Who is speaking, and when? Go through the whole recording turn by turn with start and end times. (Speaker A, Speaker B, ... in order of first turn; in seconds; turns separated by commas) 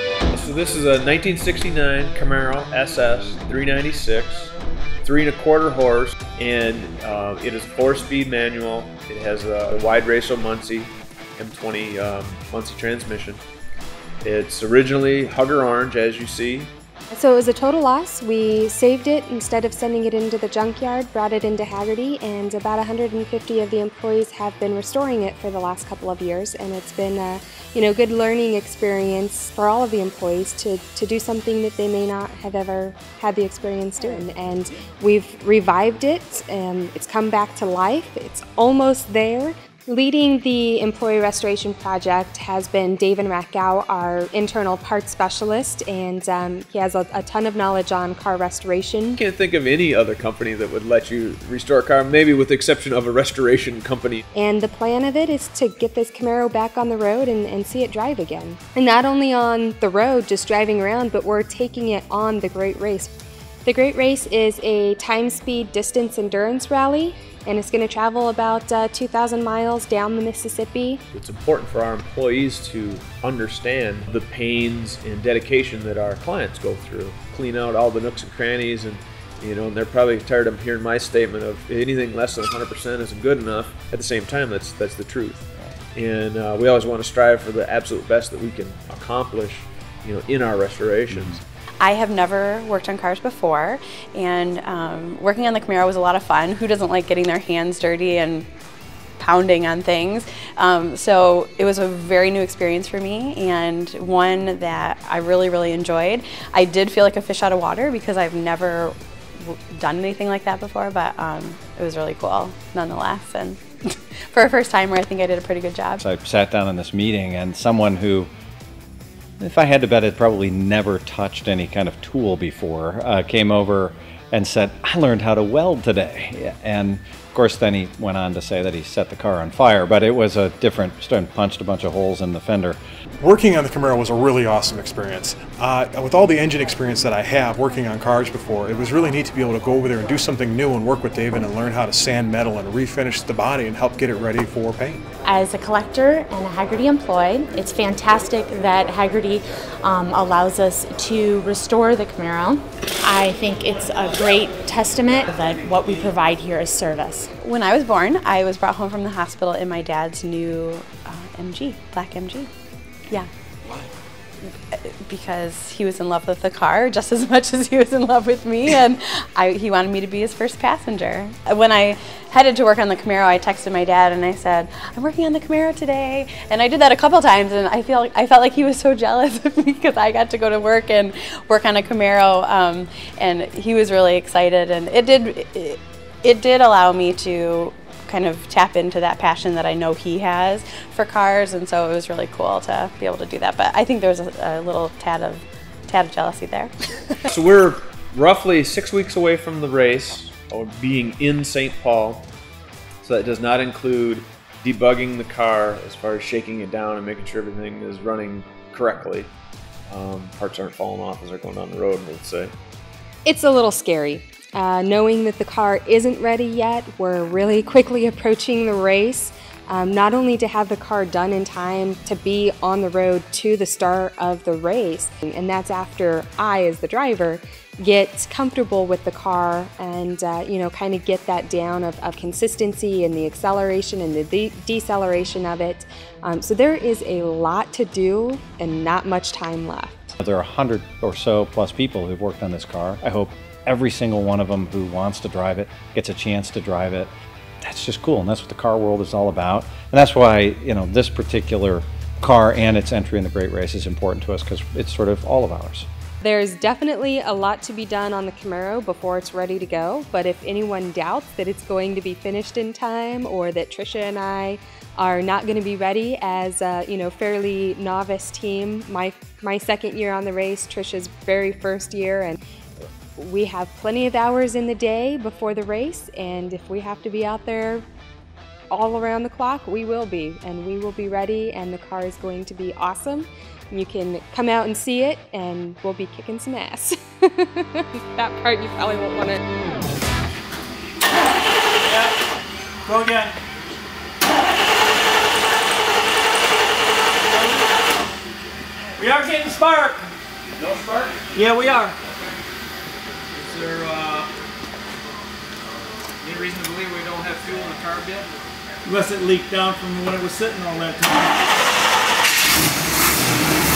Speaker A: 0.3-13.4, Speaker A: 14.2-16.7, Speaker B: 17.1-49.2, Speaker A: 49.2-54.2, Speaker B: 54.4-63.1, Speaker B: 63.6-71.0, Speaker A: 71.1-91.4, Speaker C: 91.8-98.5, Speaker C: 99.2-116.0, Speaker D: 116.0-118.3, Speaker D: 119.4-132.8, Speaker E: 133.2-145.0, Speaker F: 145.3-157.3, Speaker C: 157.4-162.5, Speaker C: 164.4-197.2, Speaker A: 197.3-202.3, Speaker A: 203.0-209.3, Speaker A: 209.9-212.5, Speaker B: 213.2-240.2, Speaker D: 240.2-255.9, Speaker B: 256.2-272.4, Speaker B: 273.2-277.9, Speaker B: 278.7-289.4, Speaker G: 291.8-292.2, Speaker G: 292.8-293.4, Speaker G: 297.2-297.7, Speaker G: 299.0-302.0, Speaker G: 303.3-304.3, Speaker G: 306.2-308.3, Speaker G: 308.8-311.4